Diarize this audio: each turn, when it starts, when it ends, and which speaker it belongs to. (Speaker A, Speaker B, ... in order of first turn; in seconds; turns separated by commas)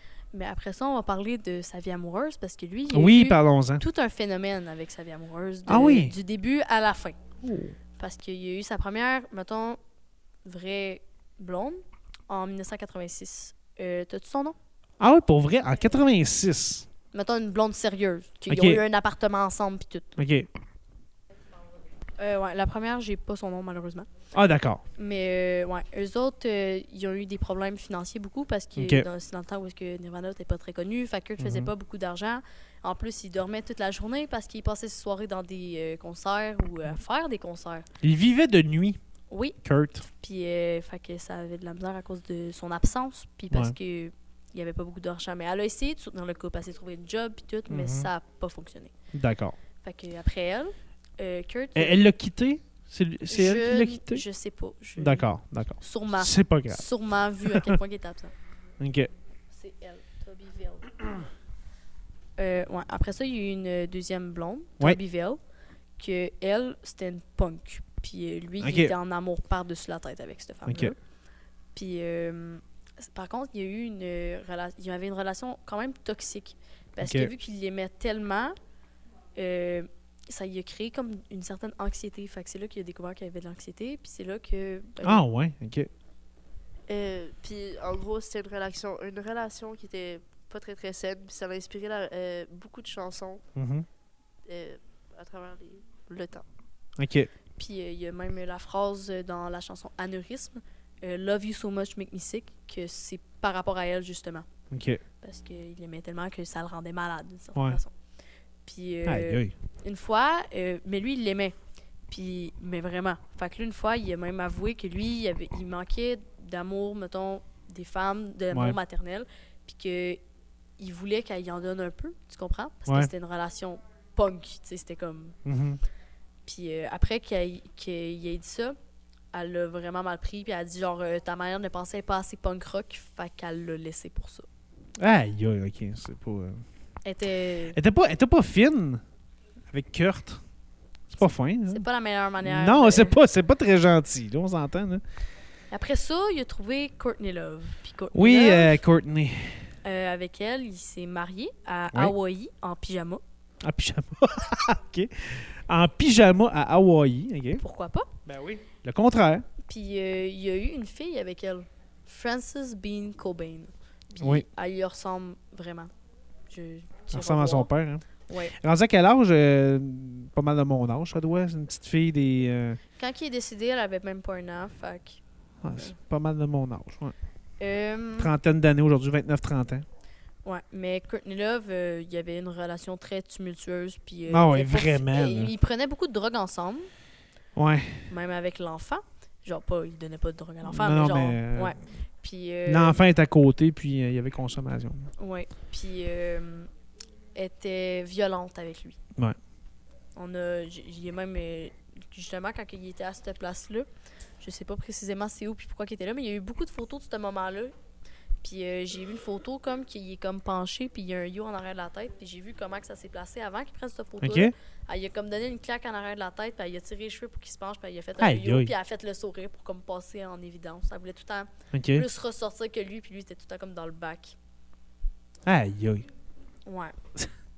Speaker A: 0.3-7.2, Speaker B: 2.9-3.8, Speaker B: 5.7-6.1, Speaker B: 7.4-7.8, Speaker A: 8.0-9.8, Speaker A: 10.4-14.6, Speaker B: 15.0-16.9, Speaker A: 17.1-20.1, Speaker B: 18.5-18.8, Speaker B: 20.2-20.5, Speaker A: 22.2-24.1, Speaker B: 24.3-24.8, Speaker A: 25.0-37.9, Speaker B: 28.8-29.1, Speaker B: 31.4-31.7, Speaker B: 38.0-39.0, Speaker A: 39.3-39.6, Speaker B: 39.6-40.1, Speaker A: 40.1-48.9, Speaker B: 47.7-48.1, Speaker B: 49.1-49.6, Speaker A: 49.8-52.0, Speaker B: 51.8-54.2, Speaker A: 53.3-55.3, Speaker B: 55.0-56.8, Speaker A: 55.8-58.3, Speaker B: 57.5-57.8, Speaker B: 58.8-59.1, Speaker A: 59.5-61.0, Speaker A: 62.4-65.4, Speaker A: 66.0-71.0, Speaker B: 68.6-68.9, Speaker B: 70.7-70.9, Speaker A: 71.8-78.6, Speaker B: 77.0-77.3, Speaker A: 79.4-85.2, Speaker B: 85.0-85.9, Speaker C: 86.9-93.4, Speaker B: 93.5-93.9, Speaker C: 94.5-96.4, Speaker B: 97.0-97.3, Speaker A: 97.6-104.5, Speaker B: 104.7-105.0, Speaker A: 105.2-107.9, Speaker A: 108.7-111.5, Speaker B: 109.0-109.5, Speaker A: 112.1-120.2, Speaker B: 118.5-118.8, Speaker A: 120.8-125.4, Speaker B: 125.5-125.8, Speaker A: 126.5-128.8, Speaker A: 129.3-134.5, Speaker B: 135.0-136.6, Speaker A: 137.1-137.8, Speaker B: 137.7-139.0, Speaker B: 139.7-140.4, Speaker B: 141.1-141.8, Speaker A: 141.7-143.2, Speaker B: 142.4-145.0, Speaker A: 145.7-148.8, Speaker B: 148.1-149.6, Speaker A: 149.8-153.2, Speaker B: 153.6-157.6, Speaker A: 157.6-158.1, Speaker B: 158.3-159.5, Speaker A: 159.7-165.9, Speaker B: 164.2-164.4, Speaker A: 166.5-167.7, Speaker B: 167.1-172.8, Speaker A: 168.3-168.6, Speaker A: 173.0-175.2, Speaker B: 175.6-177.2, Speaker A: 177.6-178.3, Speaker B: 178.2-179.8, Speaker A: 180.4-186.9, Speaker B: 184.3-185.5, Speaker B: 187.6-188.0, Speaker A: 188.1-193.0, Speaker B: 190.6-191.8, Speaker B: 192.7-195.1, Speaker A: 195.2-196.7, Speaker A: 197.3-199.0, Speaker A: 200.2-203.9, Speaker A: 204.4-207.7, Speaker A: 208.4-224.4, Speaker B: 214.2-214.5, Speaker B: 218.2-218.7, Speaker B: 221.7-222.1, Speaker B: 225.5-226.1, Speaker A: 226.7-227.0